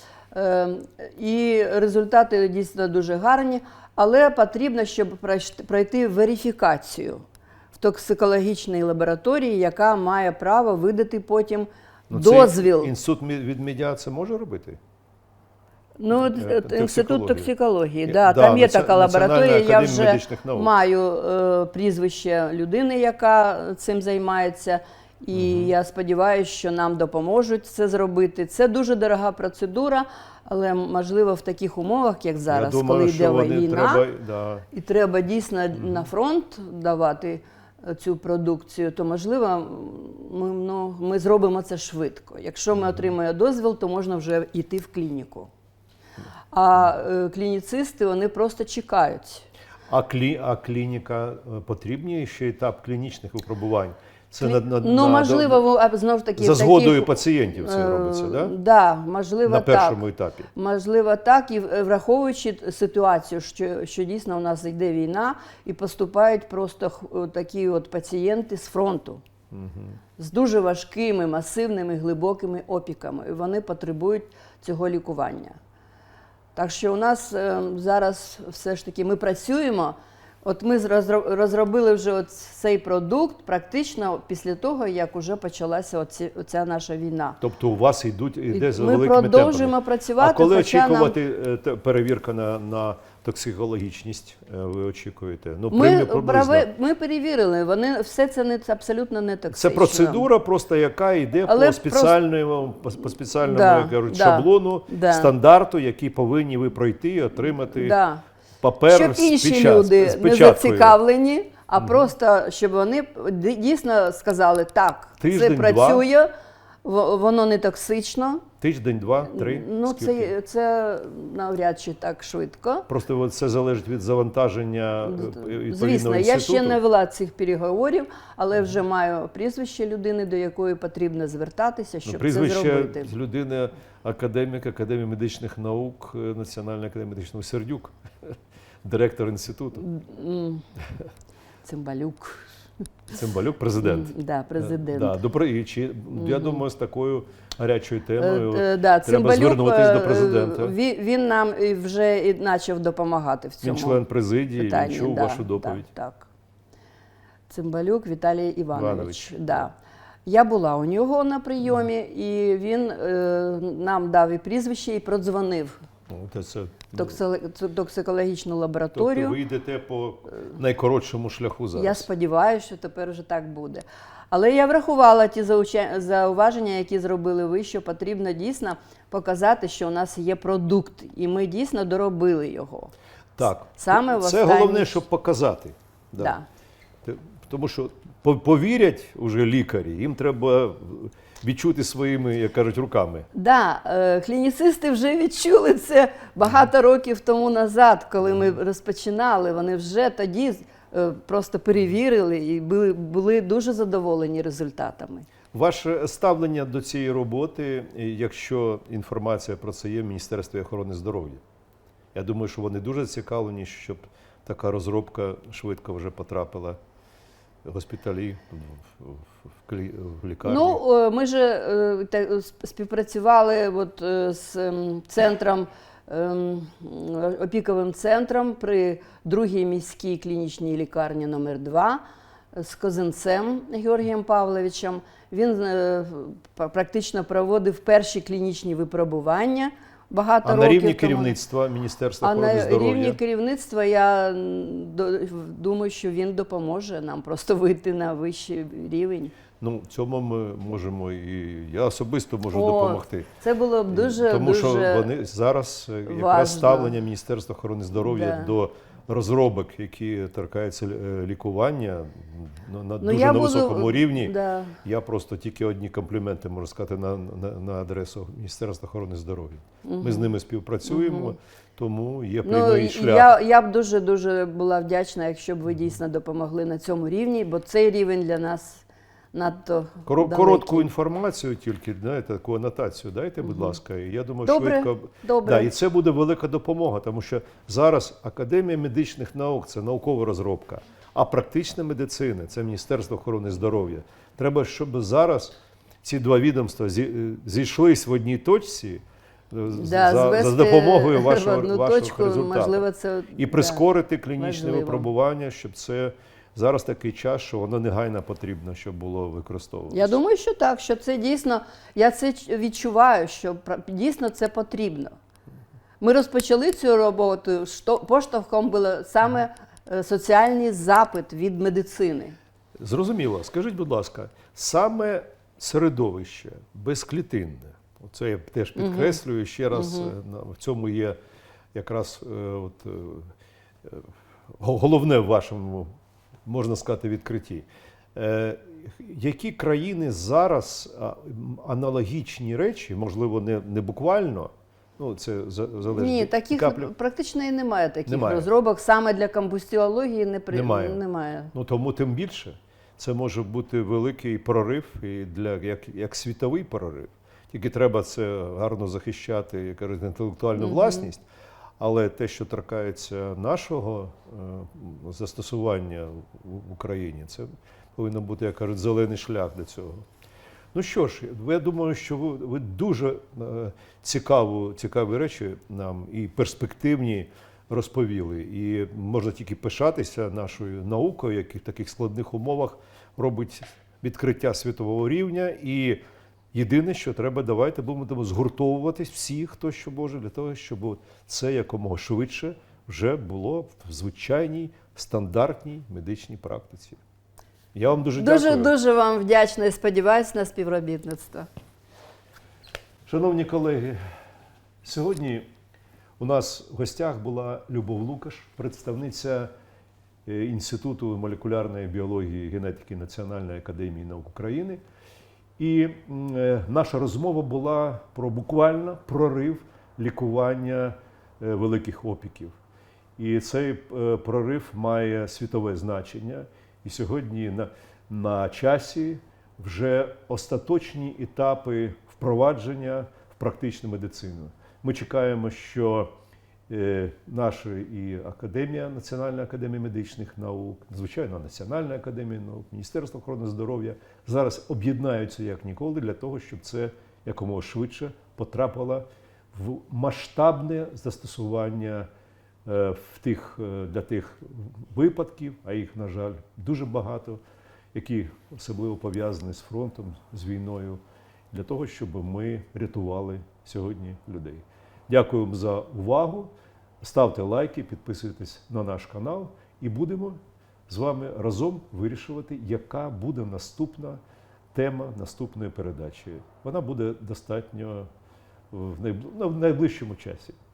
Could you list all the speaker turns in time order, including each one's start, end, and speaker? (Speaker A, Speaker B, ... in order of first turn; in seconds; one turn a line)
Speaker A: 0.3-7.2
Speaker A: 7.8-12.9
Speaker B: 12.1-14.8
Speaker A: 16.0-34.1
Speaker B: 16.1-17.5
Speaker B: 18.1-20.7
Speaker B: 25.3-25.7
Speaker B: 32.5-34.7
Speaker A: 34.7-45.5
Speaker B: 35.8-36.1
Speaker A: 46.5-49.5
Speaker B: 49.9-55.6
Speaker A: 54.4-60.0
Speaker B: 56.4-58.5
Speaker B: 59.5-60.5
Speaker A: 60.5-69.2
Speaker B: 69.5-70.0
Speaker A: 70.2-75.6
Speaker A: 76.5-87.4
Speaker B: 87.4-96.7
Speaker A: 88.5-91.2
Speaker A: 95.7-100.3
Speaker B: 99.5-108.0
Speaker A: 101.5-102.2
Speaker A: 103.4-105.3
Speaker A: 107.8-108.2
Speaker B: 108.6-111.0
Speaker A: 108.9-116.3
Speaker B: 111.8-112.1
Speaker B: 115.2-116.1
Speaker A: 116.8-118.5
Speaker B: 118.6-120.3
Speaker A: 119.3-122.9
Speaker B: 122.9-126.8
Speaker A: 125.0-133.1
Speaker B: 132.1-139.8
Speaker A: 139.8-140.6
Speaker A: 141.7-142.5
Speaker B: 143.1-150.8
Speaker A: 143.8-145.2
Speaker A: 146.2-146.6
Speaker A: 148.2-154.0
Speaker B: 153.6-155.9
Speaker A: 154.6-156.3
Speaker A: 157.5-159.7
Speaker B: 158.7-159.6
Speaker A: 160.3-165.8
Speaker B: 166.1-167.2
Speaker A: 166.9-169.4
Speaker B: 168.9-172.1
Speaker A: 171.8-185.0
Speaker B: 183.4-186.4
Speaker A: 186.2-186.4
Speaker B: 187.0-193.3
Speaker A: 193.3-205.3
Speaker B: 205.5-211.4
Speaker B: 212.1-216.8
Speaker B: 217.7-220.8
Speaker A: 220.4-232.0
Speaker A: 232.6-241.4
Speaker B: 240.4-243.2
Speaker A: 242.2-249.3
Speaker B: 249.6-253.3
Speaker A: 252.5-255.1
Speaker B: 253.9-273.3
Speaker A: 256.1-257.0
Speaker A: 258.0-258.6
Speaker A: 263.0-264.8
Speaker A: 269.8-271.4
Speaker A: 272.4-280.9
Speaker B: 280.1-302.9
Speaker A: 283.4-283.8
Speaker A: 284.4-285.7
Speaker A: 299.7-303.8
Speaker B: 303.4-310.2
Speaker A: 304.4-305.1
Speaker A: 309.9-315.1
Speaker A: 316.0-322.4
Speaker B: 322.8-331.2
Speaker A: 328.8-329.2
Speaker A: 329.7-330.1
Speaker B: 331.7-333.3
Speaker B: 333.8-335.9
Speaker B: 336.5-346.9
Speaker A: 345.9-351.5
Speaker B: 348.1-348.5
Speaker B: 350.5-351.0
Speaker B: 351.5-361.2
Speaker A: 360.6-361.1
Speaker B: 361.8-370.1
Speaker B: 370.7-386.0
Speaker B: 386.5-397.0
Speaker B: 397.7-398.7
Speaker A: 398.2-401.5
Speaker B: 403.1-404.0
Speaker B: 404.8-405.5
Speaker B: 406.2-409.5
Speaker B: 410.3-414.8
Speaker B: 415.6-422.6
Speaker B: 423.2-436.1
Speaker B: 436.7-452.1
Speaker B: 452.7-457.4
Speaker B: 457.9-461.0
Speaker B: 461.5-474.2
Speaker B: 474.7-478.1
Speaker B: 478.7-480.6